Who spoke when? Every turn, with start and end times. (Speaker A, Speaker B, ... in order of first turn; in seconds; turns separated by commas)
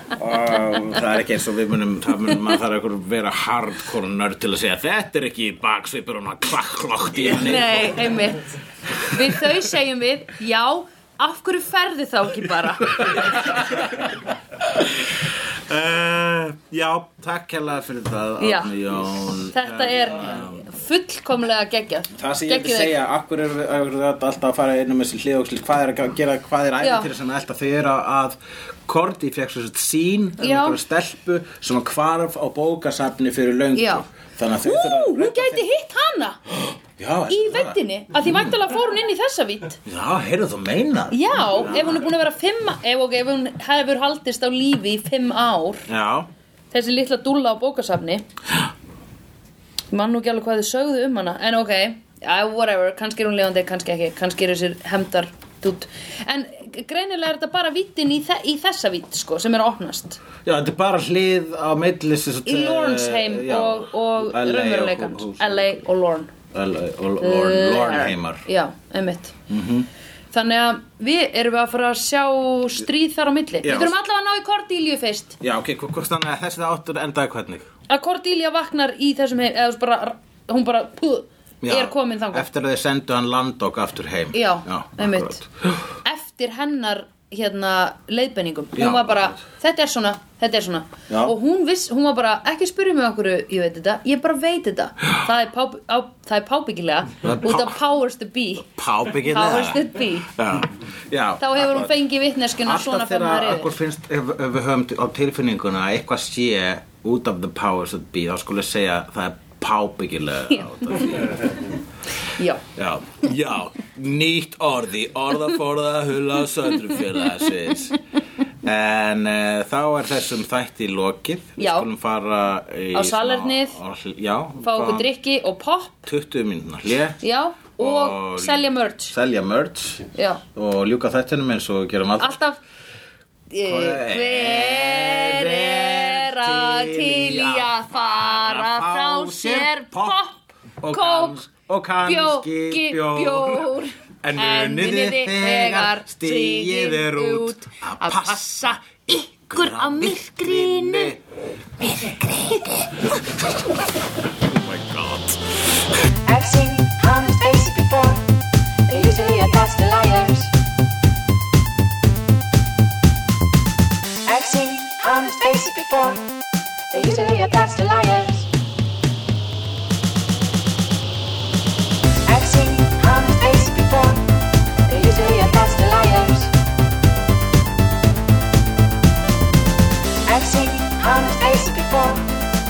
Speaker A: 0.1-8.1, Speaker B: 7.3-13.6, Speaker A: 13.5-13.8, Speaker A: 15.7-20.6, Speaker B: 18.4-18.7, Speaker B: 19.4-23.0, Speaker A: 22.1-35.6, Speaker B: 26.8-27.1, Speaker B: 30.4-30.8, Speaker B: 33.7-34.0, Speaker B: 34.6-36.4, Speaker A: 36.5-37.8, Speaker B: 37.3-39.8, Speaker A: 39.8-42.0, Speaker B: 41.1-45.8, Speaker A: 45.9-46.3, Speaker B: 46.7-48.2, Speaker B: 49.9-60.2, Speaker A: 60.5-65.8, Speaker B: 62.5-66.3, Speaker A: 66.5-68.4, Speaker B: 67.2-69.3, Speaker A: 69.5-69.9, Speaker B: 70.3-75.3, Speaker A: 73.6-74.0, Speaker A: 75.4-77.7, Speaker B: 77.9-82.5, Speaker A: 81.6-85.8, Speaker B: 84.3-85.4, Speaker B: 86.0-98.7, Speaker A: 88.8-89.4, Speaker A: 91.1-91.3, Speaker A: 97.2-97.7, Speaker A: 98.6-101.9, Speaker B: 99.2-100.3, Speaker B: 101.4-103.8, Speaker A: 102.6-111.8, Speaker B: 112.3-112.6, Speaker A: 112.7-118.0, Speaker A: 118.6-125.1, Speaker B: 121.6-121.9, Speaker B: 122.9-123.8, Speaker B: 124.6-126.0, Speaker A: 126.0-127.2, Speaker B: 127.2-129.1, Speaker A: 127.8-132.4, Speaker B: 130.1-130.4, Speaker B: 132.2-132.6, Speaker B: 133.5-141.4, Speaker A: 133.6-140.2, Speaker A: 140.8-148.8, Speaker B: 142.0-151.2, Speaker A: 149.5-151.2, Speaker B: 151.8-153.1, Speaker A: 154.5-155.6, Speaker C: 156.2-158.2, Speaker C: 158.9-160.5, Speaker C: 164.2-166.3, Speaker C: 166.9-168.5, Speaker C: 172.3-174.3, Speaker C: 174.8-176.5, Speaker C: 180.3-182.2